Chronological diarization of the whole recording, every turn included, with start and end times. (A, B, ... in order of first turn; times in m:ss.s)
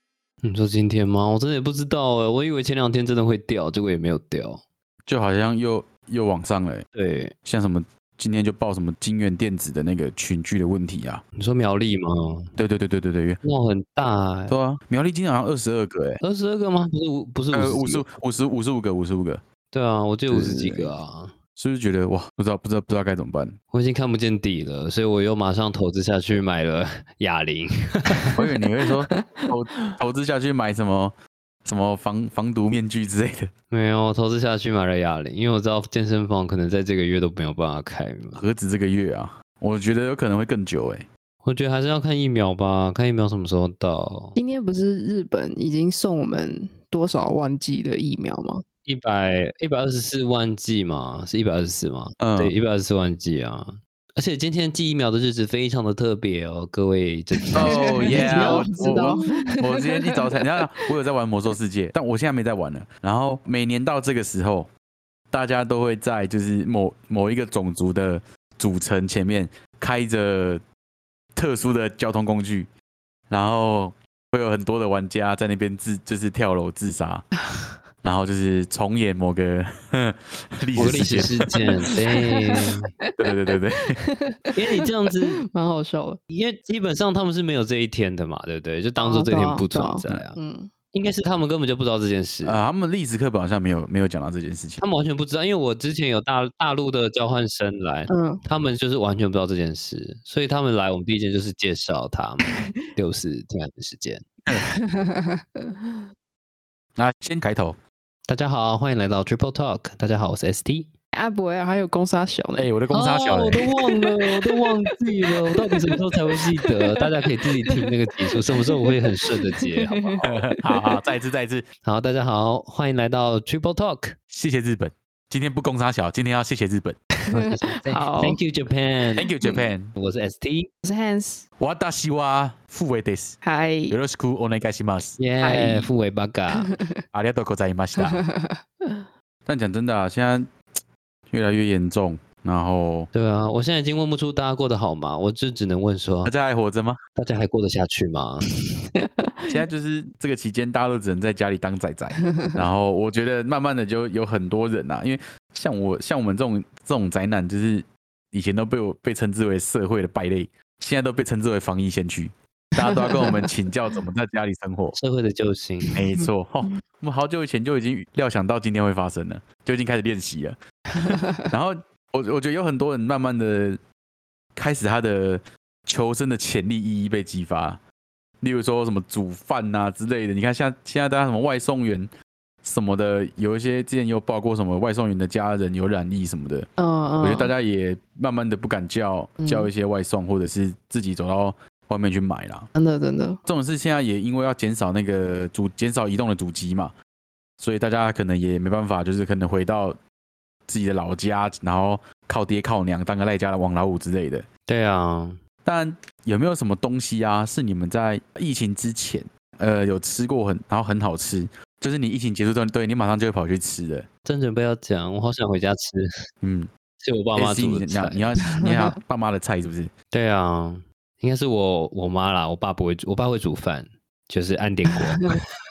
0:00.4-0:04.6 A
0:05.1-0:06.9 B
0:07.0-0:07.4 A
0:07.4-0:11.2 B
0:11.4-0:12.5 A
0:12.6-0:13.4 B
0:13.4-0:14.6 A
0:14.5-0:16.2 B
0:16.2-0:18.1 A
0:17.5-0:19.4 B
0:19.7-0:21.3 A
0:20.3-0:20.9 B
0:21.6-0:23.6 B
0:23.7-0:28.3 A
0:28.4-0:31.1 B
0:29.2-0:29.9 C
0:31.6-0:33.5 B
0:33.7-0:38.4 A
0:38.4-0:41.1 B
0:41.4-0:44.4 A
0:44.4-0:48.6 C
0:48.9-0:59.3 A
0:52.2-0:52.6 B
0:57.5-1:00.4 C
0:57.6-1:04.7 B
1:05.3-1:10.6 B
1:11.4-1:12.7 B
1:13.3-1:17.3 B
1:18.0-1:21.5 B
1:20.8-1:22.9 A
1:22.1-1:24.6 C
1:23.2-1:24.0 B
1:24.6-1:25.4 A
1:25.1-1:26.2 C
1:26.3-1:30.4 A
1:29.0-1:30.7 C
1:30.9-1:32.6 A
1:32.4-1:34.8 B
1:34.8-1:44.3 A
1:38.1-1:38.4 C
1:44.5-1:46.0 C
1:47.0-1:47.8 B
1:48.3-1:50.9 A
1:51.1-1:52.7 C
1:52.6-1:53.7 B
1:52.9-2:00.5 A
1:53.8-1:54.9 C
1:55.5-1:57.7 C
1:58.6-2:00.7 C
2:00.2-2:01.7 B
2:01.8-2:04.2 A
2:04.3-2:07.0 B
2:07.3-2:08.4 C
2:07.3-2:09.3 A
2:09.2-2:09.9 B
2:09.4-2:09.7 C
2:10.0-2:10.7 A
2:10.8-2:11.4 C
2:11.6-2:15.2 B
2:13.4-2:14.0 C
2:15.2-2:16.8 A
2:15.4-2:15.9 C
2:16.6-2:17.0 C
2:17.1-2:18.2 B
2:18.0-2:19.0 C
2:19.5-2:20.6 B
2:21.3-2:23.1 B
2:23.1-2:26.3 A
2:26.2-2:27.0 B
2:27.2-2:28.5 A
2:29.0-2:29.5 C
2:29.5-2:45.0 B
2:42.8-2:43.5 C
2:45.0-2:45.9 A
2:46.0-2:53.8 B
2:46.0-2:46.3 C
2:51.0-2:51.4 C
2:54.6-2:57.8 B
2:58.4-3:02.1 B
3:02.6-3:06.7 B
3:06.8-3:07.5 C
3:07.2-3:12.7 B
3:09.4-3:09.7 C
3:12.8-3:13.4 C
3:13.5-3:16.9 B
3:17.6-3:20.0 B
3:20.7-3:24.5 B
3:24.7-3:25.4 A
3:25.6-3:34.1 B
3:34.3-3:36.1 A
3:36.4-3:36.7 B
3:37.0-3:38.3 A
3:37.4-3:39.9 B
3:38.6-3:39.0 C
3:40.1-3:45.3 A